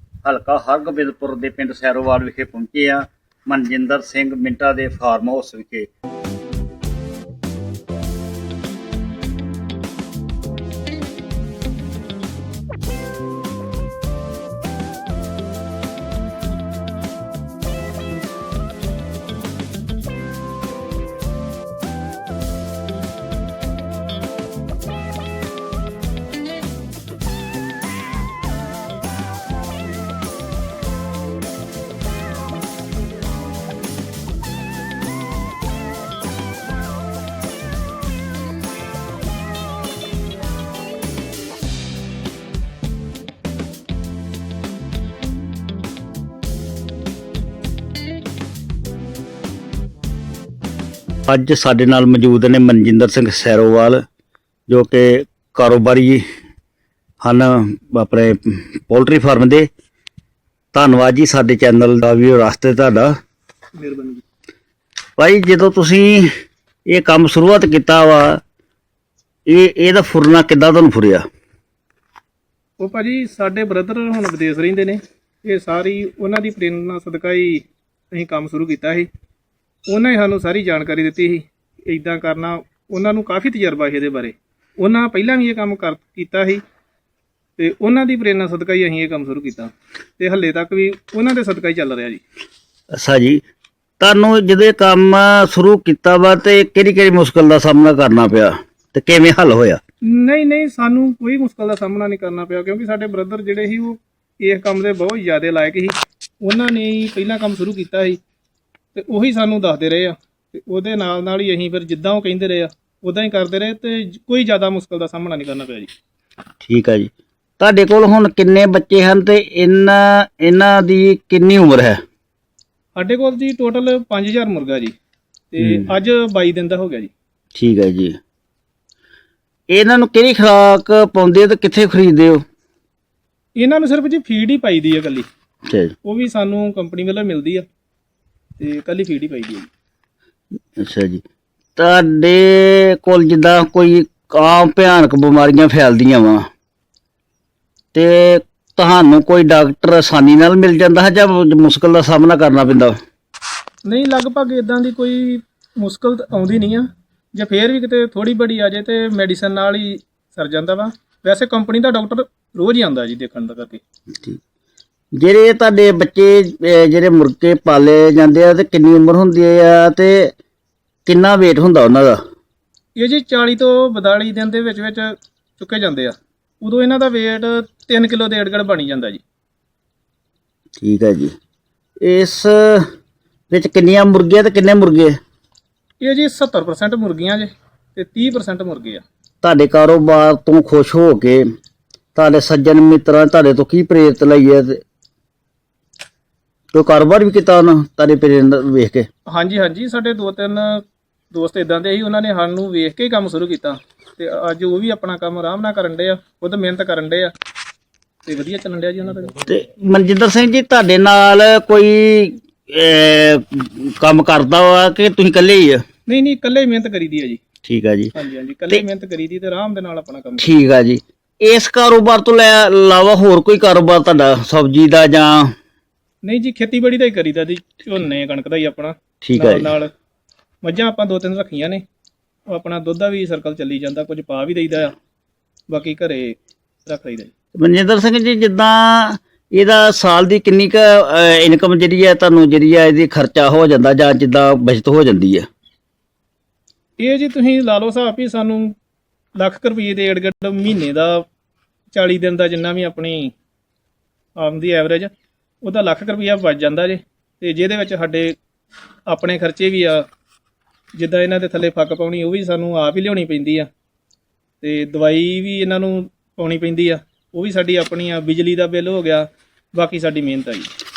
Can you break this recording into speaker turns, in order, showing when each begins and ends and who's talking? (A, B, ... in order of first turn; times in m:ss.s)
0:00.2-0:05.9 A
0:51.3-0:54.0 A
0:54.7-0:56.2 A
0:57.2-0:59.7 A
1:00.7-1:03.1 A
1:03.8-1:04.2 B
1:05.2-1:06.3 A
1:06.9-1:08.4 A
1:09.5-1:11.2 A
1:12.8-1:19.1 B
1:19.9-1:26.6 B
1:27.6-1:32.2 B
1:32.9-1:33.4 A
1:34.0-1:39.8 A
1:40.0-1:48.2 B
1:48.9-1:55.9 B
1:56.6-2:02.0 A
2:03.0-2:04.9 B
2:05.5-2:07.1 B
2:05.6-2:05.9 A
2:07.5-2:08.2 A
2:09.7-2:12.4 A
2:13.6-2:15.3 B
2:15.7-2:15.9 A
2:16.0-2:17.6 B
2:18.6-2:19.7 B
2:20.8-2:21.2 A
2:21.8-2:26.4 A
2:27.9-2:33.0 A
2:33.8-2:43.8 B
2:45.2-2:50.3 A
2:51.0-2:52.2 A
2:53.0-2:59.2 B
3:00.8-3:01.3 A
3:02.0-3:02.9 A
3:03.5-3:05.2 A
3:06.0-3:09.0 B
3:09.4-3:11.4 A
3:12.1-3:14.8 A
3:16.7-3:19.1 A
3:19.3-3:27.3 B
3:28.2-3:29.4 B
3:29.5-3:35.8 A
3:36.1-3:37.4 B
3:37.6-3:38.1 A
3:38.1-3:40.5 B
3:40.4-3:45.5 A
3:46.2-3:49.9 B
3:49.2-3:49.7 A
3:50.6-3:51.8 B
3:52.5-3:54.9 B
3:55.7-3:57.3 B
3:57.6-4:05.5 A
4:07.0-4:08.7 B
4:09.4-4:11.3 B
4:11.9-4:13.3 B
4:14.4-4:15.1 B
4:15.6-4:18.4 B
4:19.1-4:20.1 B
4:21.0-4:23.7 B
4:24.6-4:30.7 B